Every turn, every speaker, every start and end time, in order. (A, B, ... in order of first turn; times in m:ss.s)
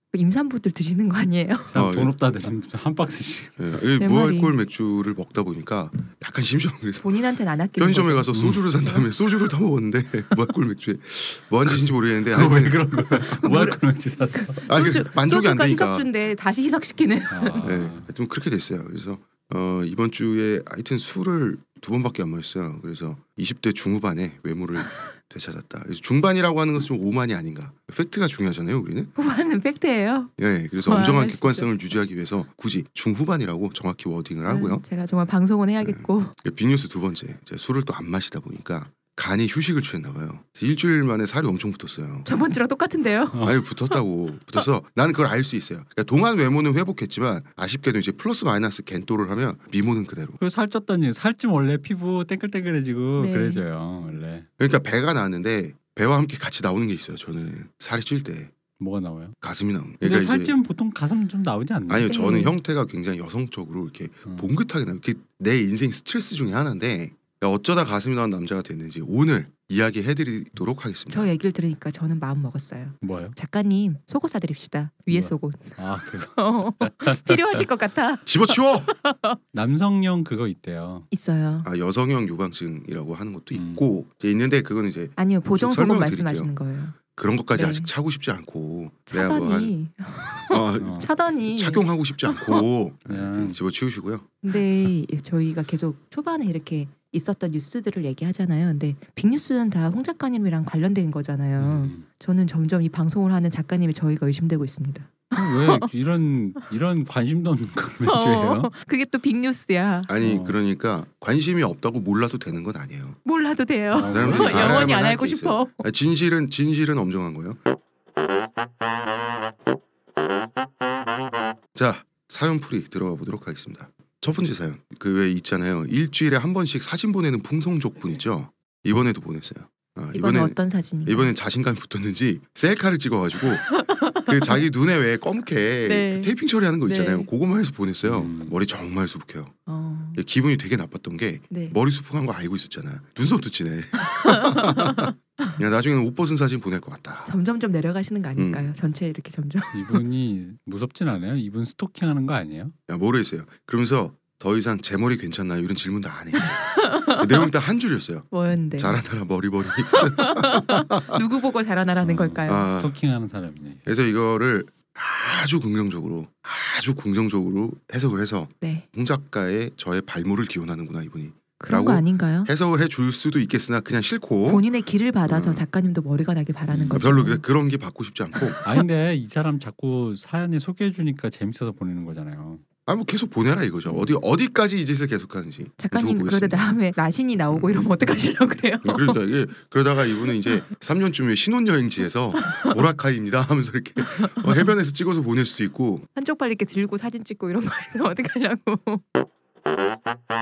0:00.1-0:01.7 A
0:01.7-0:03.6 B
0:01.7-0:02.1 C
0:03.6-0:07.2 C
0:04.0-0:04.5 A
0:07.0-0:08.3 A
0:07.8-0:13.6 C
0:08.3-0:08.6 B
0:12.3-0:14.6 B
0:13.4-0:13.8 A
0:14.4-0:17.6 A
0:14.6-0:16.1 C
0:17.3-0:18.1 B
0:17.6-0:29.1 C
0:29.2-0:30.3 A
0:30.4-0:34.8 C
0:30.8-0:31.7 A
0:34.4-0:36.3 A
0:35.8-0:42.3 C
0:42.2-0:44.0 A
0:43.4-0:50.4 C
0:50.4-0:54.5 B
0:53.2-0:53.6 A
0:54.6-0:58.5 C
0:58.8-0:59.4 B
0:59.4-1:00.5 C
1:00.0-1:02.2 B
1:01.9-1:11.3 C
1:02.1-1:02.5 A
1:11.1-1:15.8 A
1:13.0-1:13.3 B
1:15.1-1:17.6 B
1:16.3-1:19.4 A
1:18.2-1:18.9 C
1:19.5-1:21.1 B
1:21.1-1:21.7 A
1:21.6-1:26.5 C
1:23.5-1:23.8 B
1:25.2-1:27.0 A
1:27.1-1:29.7 C
1:27.5-1:27.9 A
1:29.1-1:32.6 A
1:30.4-1:34.3 C
1:30.8-1:31.1 B
1:33.1-1:33.6 B
1:34.4-1:45.8 A
1:41.6-1:42.0 B
1:45.3-1:48.7 B
1:48.0-1:50.1 A
1:50.1-1:53.2 C
1:50.2-1:50.6 B
1:53.2-1:55.8 A
1:53.9-1:54.8 B
1:54.1-1:57.6 C
2:01.7-2:19.5 C
2:10.1-2:11.3 A
2:13.7-2:14.6 A
2:15.8-2:16.3 A
2:16.8-2:17.3 A
2:18.0-2:18.5 B
2:19.7-2:20.2 A
2:20.1-2:27.3 C
2:21.5-2:21.8 A
2:24.1-2:25.5 A
2:27.2-2:30.0 A
2:28.4-2:28.7 C
2:29.7-2:32.7 B
2:32.9-2:41.2 C
2:36.6-2:37.3 A
2:38.3-2:39.0 A
2:40.0-2:42.7 A
2:42.0-2:43.9 B
2:42.5-2:42.9 C
2:43.8-2:54.6 C
2:48.6-2:48.8 A
2:51.6-2:52.5 A
2:54.4-2:57.4 A
2:55.3-2:55.6 C
2:56.7-2:57.1 B
2:56.9-2:58.6 C
2:58.4-2:58.8 A
2:58.6-3:02.6 B
3:02.8-3:06.7 C
3:03.8-3:04.1 A
3:05.8-3:09.2 A
3:07.5-3:07.9 C
3:08.8-3:16.1 C
3:12.4-3:12.8 A
3:14.0-3:14.6 A
3:16.1-3:19.0 A